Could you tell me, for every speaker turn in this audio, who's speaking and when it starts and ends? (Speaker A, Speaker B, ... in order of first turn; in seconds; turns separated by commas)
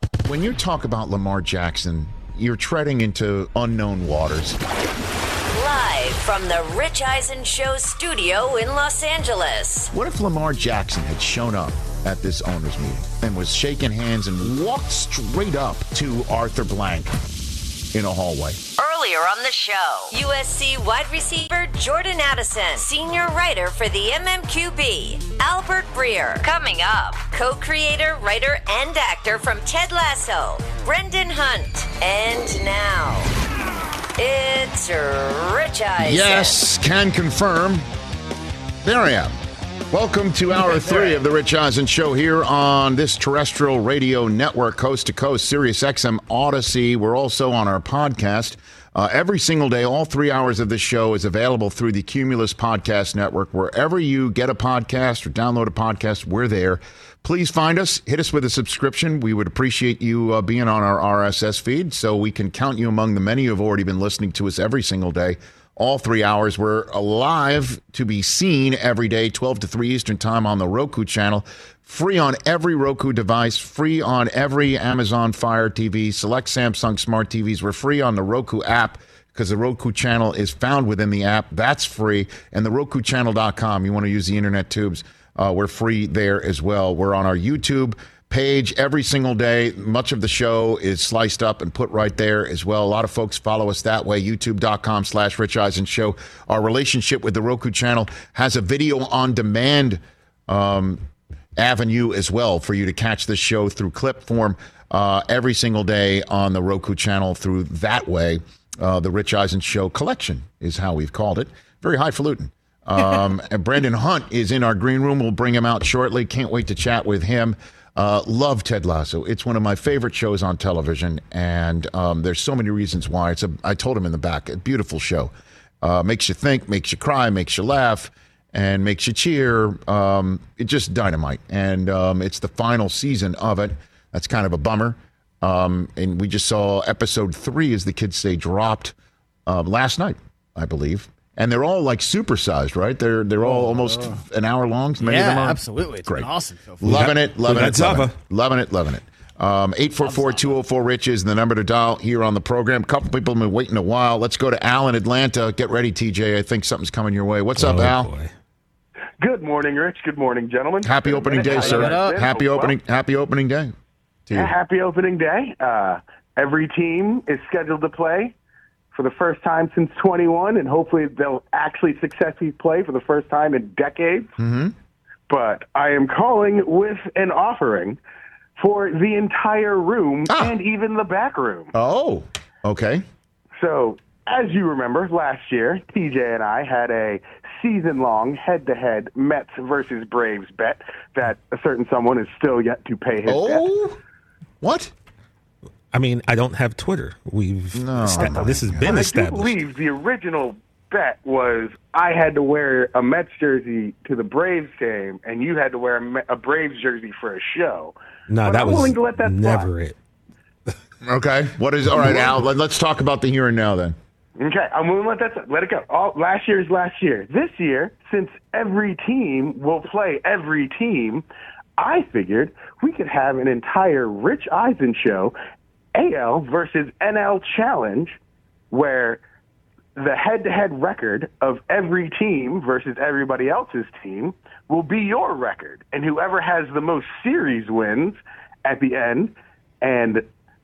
Speaker A: 0.2-4.6, Speaker B: 5.5-9.9, Speaker A: 9.9-17.2, Speaker A: 17.9-18.6, Speaker B: 18.8-33.3, Speaker B: 34.2-36.6, Speaker A: 36.0-37.8, Speaker A: 38.8-39.3, Speaker A: 39.9-101.0, Speaker A: 101.6-138.9, Speaker A: 139.4-146.3, Speaker C: 143.4-144.2, Speaker C: 145.0-147.1, Speaker A: 146.8-158.1, Speaker D: 146.8-148.2, Speaker C: 150.0-150.6, Speaker D: 157.6-158.3, Speaker E: 159.2-162.7, Speaker A: 160.8-163.7, Speaker C: 161.4-162.2, Speaker A: 164.3-164.5, Speaker E: 164.3-168.3, Speaker E: 168.9-174.3, Speaker A: 174.4-174.7, Speaker E: 175.3-178.0, Speaker E: 178.6-181.7, Speaker A: 180.3-180.6, Speaker A: 181.7-183.0, Speaker E: 183.6-193.6, Speaker A: 193.2-194.0, Speaker A: 194.6-194.9, Speaker D: 195.9-199.5, Speaker A: 197.7-199.0, Speaker E: 198.1-209.7, Speaker D: 208.3-209.9, Speaker A: 211.0-213.9, Speaker E: 214.4-221.2, Speaker E: 221.8-225.3, Speaker E: 225.9-228.2, Speaker E: 228.7-229.2, Speaker E: 229.9-240.2